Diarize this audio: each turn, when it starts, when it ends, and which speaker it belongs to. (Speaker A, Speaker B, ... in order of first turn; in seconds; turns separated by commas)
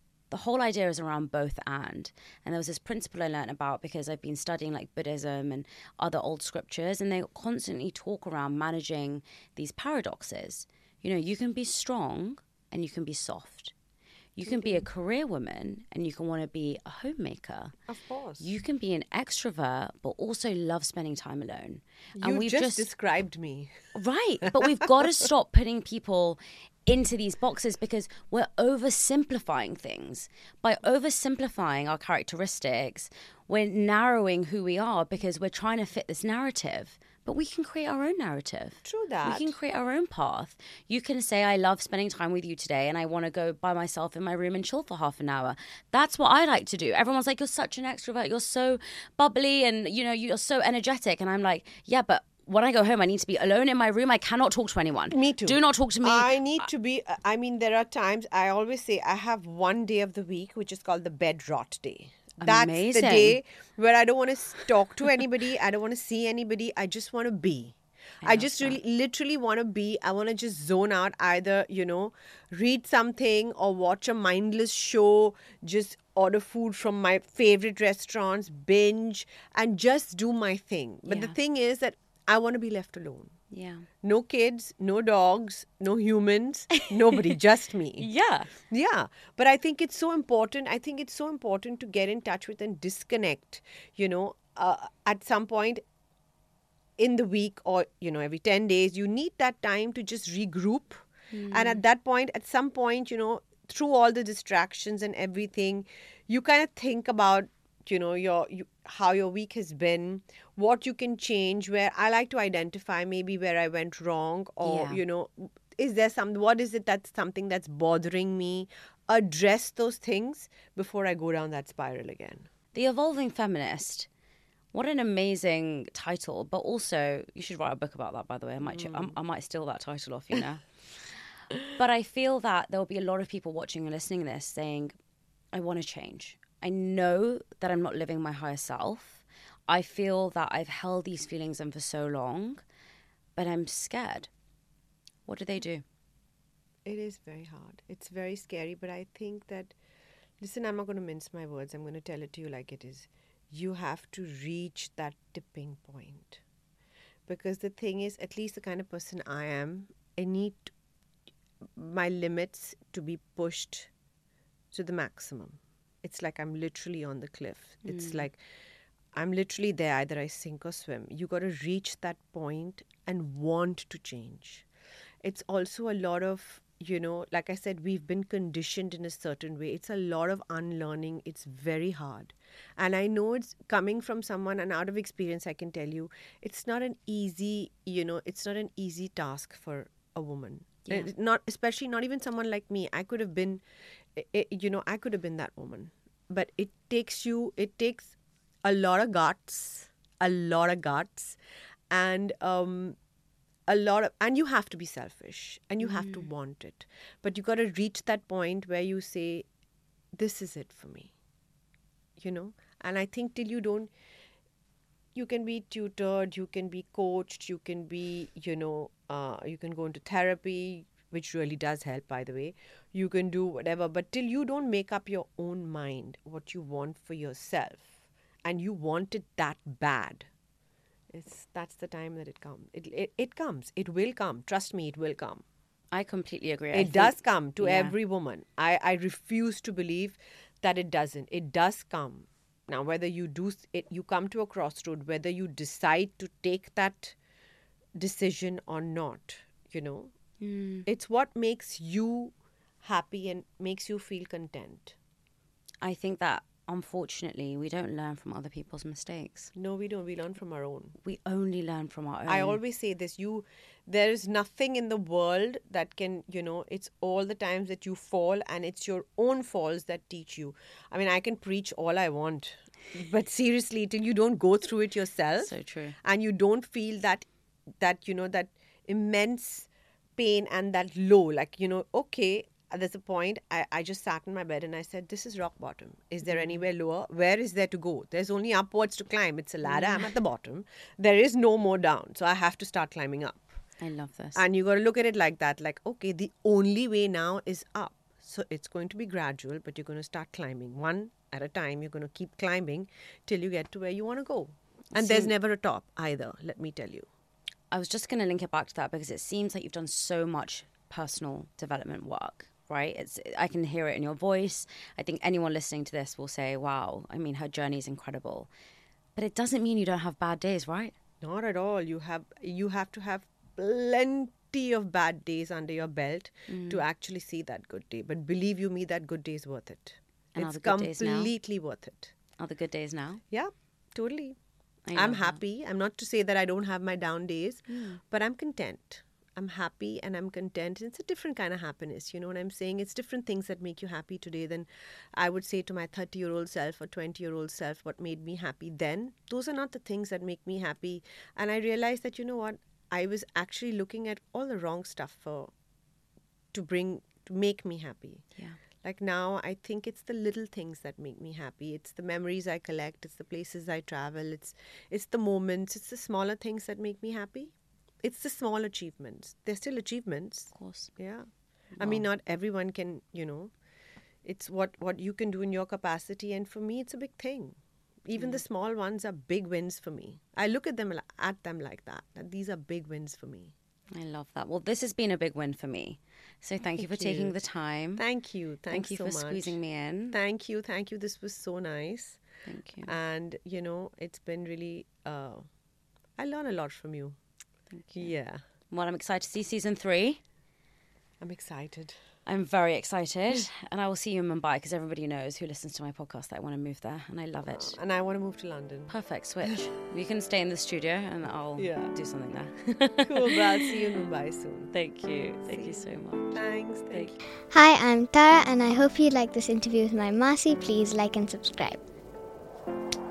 Speaker A: 0.3-13.7, Speaker A: 14.3-17.7, Speaker B: 14.4-14.8, Speaker B: 17.9-18.5, Speaker A: 18.4-22.9, Speaker B: 22.1-23.8, Speaker A: 23.9-56.7, Speaker B: 24.4-24.9, Speaker B: 38.8-39.6, Speaker B: 55.1-83.3, Speaker A: 62.4-63.4, Speaker A: 68.2-68.8, Speaker A: 81.1-81.4, Speaker A: 83.5-83.9, Speaker B: 84.0-88.1, Speaker A: 88.0-88.5, Speaker B: 88.7-95.8, Speaker B: 97.0-122.5, Speaker A: 101.3-101.8, Speaker A: 114.6-115.0, Speaker A: 122.7-124.1, Speaker A: 124.7-130.7, Speaker B: 128.6-129.1, Speaker A: 131.7-134.9, Speaker A: 135.5-142.6, Speaker A: 143.3-144.3, Speaker A: 145.2-145.8, Speaker B: 146.8-149.7, Speaker B: 150.4-156.4, Speaker B: 157.3-160.7, Speaker B: 161.6-163.9, Speaker B: 164.7-168.4, Speaker A: 167.8-168.2, Speaker B: 169.1-174.7, Speaker B: 175.2-193.6, Speaker B: 194.1-201.4, Speaker B: 201.9-203.0, Speaker B: 203.7-209.5, Speaker A: 205.8-206.3, Speaker B: 210.1-211.1, Speaker B: 212.2-213.9, Speaker B: 215.1-227.9, Speaker B: 228.4-230.3, Speaker B: 231.1-235.4, Speaker A: 235.9-237.9, Speaker B: 236.7-247.2, Speaker B: 247.9-250.1, Speaker A: 250.4-250.8, Speaker B: 250.8-254.9, Speaker A: 255.8-259.5, Speaker B: 259.5-261.0, Speaker A: 261.0-262.6, Speaker B: 262.3-277.3, Speaker A: 275.4-275.9, Speaker B: 277.8-293.6, Speaker A: 286.2-286.6, Speaker A: 289.6-290.1, Speaker A: 293.8-294.4, Speaker B: 294.3-307.1, Speaker A: 304.9-305.3, Speaker A: 307.7-318.5, Speaker A: 319.1-320.9, Speaker B: 321.2-332.1, Speaker A: 326.5-326.8, Speaker A: 330.3-331.3, Speaker A: 332.4-333.2, Speaker B: 333.3-334.4, Speaker A: 334.9-335.4, Speaker B: 334.9-355.5, Speaker A: 337.7-338.0, Speaker B: 356.5-358.2, Speaker B: 358.8-371.3, Speaker A: 370.5-370.9, Speaker A: 371.8-372.0, Speaker B: 371.8-373.5, Speaker B: 374.2-383.5, Speaker A: 378.1-378.4, Speaker A: 383.9-388.0, Speaker B: 386.8-387.3, Speaker B: 388.0-389.6, Speaker A: 388.7-390.1, Speaker B: 390.1-392.2, Speaker A: 392.4-392.9, Speaker B: 392.8-395.5, Speaker B: 396.2-397.2, Speaker A: 397.7-398.1, Speaker B: 397.9-398.4, Speaker A: 398.7-400.2, Speaker B: 401.2-401.9, Speaker A: 402.2-407.8, Speaker B: 407.5-408.9, Speaker A: 408.9-413.4, Speaker B: 411.6-411.9, Speaker B: 413.0-414.7, Speaker A: 414.7-416.4, Speaker B: 415.4-417.2, Speaker C: 417.5-421.8